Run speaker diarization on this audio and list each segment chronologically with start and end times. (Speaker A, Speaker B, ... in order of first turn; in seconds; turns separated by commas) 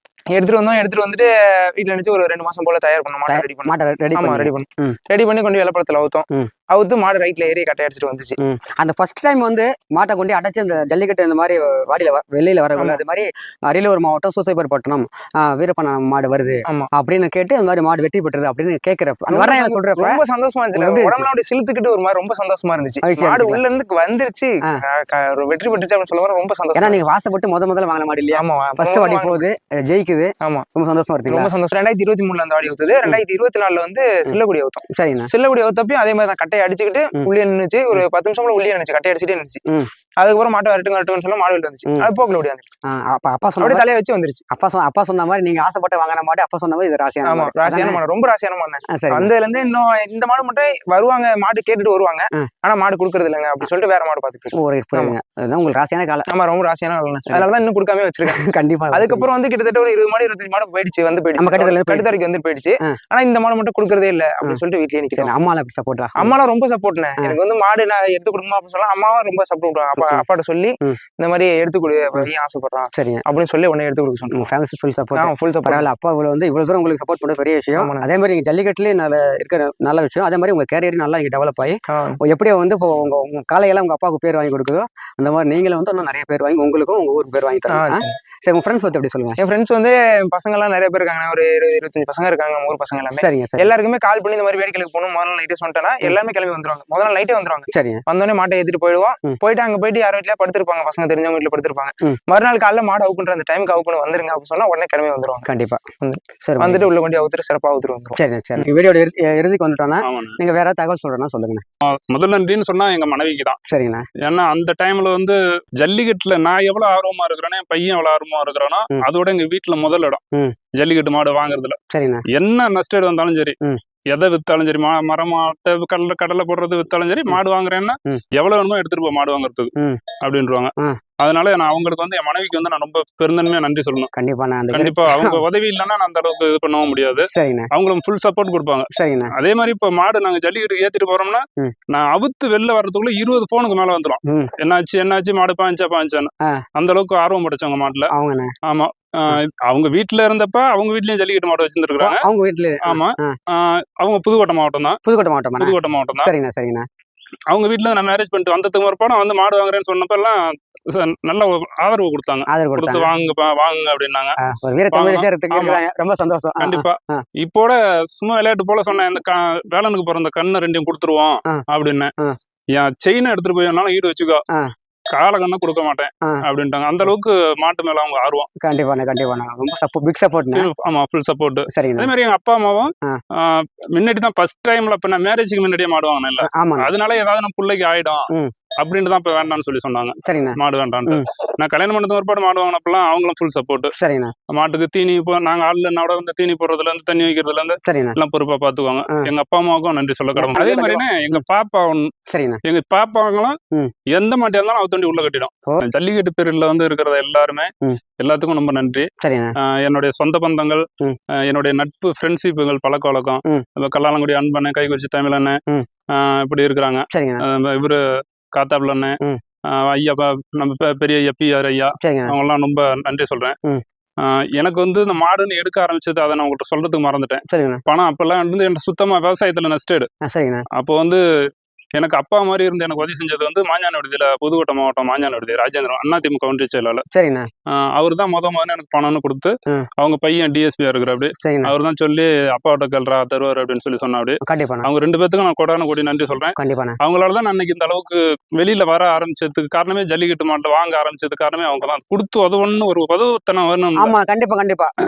Speaker A: 0.3-8.4, Speaker B: 3.3-5.0, Speaker B: 8.4-20.2, Speaker A: 19.3-27.0, Speaker B: 20.7-21.3, Speaker B: 23.0-23.6, Speaker B: 26.7-31.5, Speaker A: 28.3-29.4, Speaker A: 30.4-30.7, Speaker A: 31.3-39.6, Speaker B: 34.9-35.3, Speaker A: 40.2-42.7, Speaker B: 42.9-43.9, Speaker A: 43.6-44.4, Speaker B: 44.5-48.0, Speaker A: 47.2-55.1, Speaker B: 48.9-49.3, Speaker B: 54.5-56.3, Speaker A: 56.3-65.3, Speaker B: 58.3-59.3, Speaker B: 61.4-62.1, Speaker B: 65.1-66.3, Speaker A: 66.2-74.5, Speaker B: 69.9-70.2, Speaker B: 72.9-73.2, Speaker B: 74.3-89.4, Speaker A: 75.2-75.9, Speaker A: 77.8-78.1, Speaker A: 81.9-82.2, Speaker A: 87.7-88.2, Speaker A: 89.4-105.5, Speaker B: 93.2-93.7, Speaker B: 97.7-98.0, Speaker B: 105.5-105.8, Speaker A: 106.0-108.7, Speaker B: 106.4-106.9, Speaker B: 108.2-111.6, Speaker C: 110.0-110.4, Speaker C: 111.8-113.6, Speaker B: 113.7-114.0, Speaker C: 114.2-120.2, Speaker C: 120.7-121.8, Speaker B: 121.9-122.2, Speaker C: 122.3-123.5, Speaker C: 124.1-134.1, Speaker B: 129.8-130.0, Speaker B: 134.1-135.4, Speaker C: 134.7-148.1, Speaker B: 137.3-137.7, Speaker B: 138.9-139.3, Speaker B: 144.2-144.5, Speaker B: 148.1-148.5, Speaker C: 148.7-152.2, Speaker B: 152.0-153.3, Speaker C: 152.8-155.0, Speaker B: 155.0-156.9, Speaker C: 155.6-156.3, Speaker C: 157.5-164.3, Speaker B: 162.5-163.1, Speaker B: 164.4-167.2, Speaker C: 164.9-165.8, Speaker C: 166.6-172.1, Speaker C: 172.7-174.4, Speaker C: 175.1-178.5, Speaker B: 178.6-180.7, Speaker C: 180.5-188.2, Speaker B: 181.7-182.1, Speaker B: 186.4-186.9, Speaker C: 188.8-193.9, Speaker B: 190.2-191.3, Speaker B: 193.9-194.3, Speaker C: 194.5-202.1, Speaker B: 197.8-198.2, Speaker B: 200.3-201.4, Speaker B: 202.3-202.6, Speaker C: 202.6-203.6, Speaker C: 204.1-209.1, Speaker B: 209.2-209.5, Speaker C: 209.6-210.8, Speaker C: 211.4-215.6, Speaker C: 216.1-218.0, Speaker B: 217.1-217.4, Speaker C: 218.5-223.6, Speaker B: 222.0-222.3, Speaker C: 224.2-230.1, Speaker B: 227.5-227.8, Speaker B: 230.2-230.6, Speaker C: 230.7-231.2, Speaker C: 232.0-237.0, Speaker B: 237.1-237.5, Speaker C: 237.7-254.1, Speaker B: 241.4-241.7, Speaker B: 244.4-244.9, Speaker B: 246.6-247.0, Speaker B: 254.0-254.9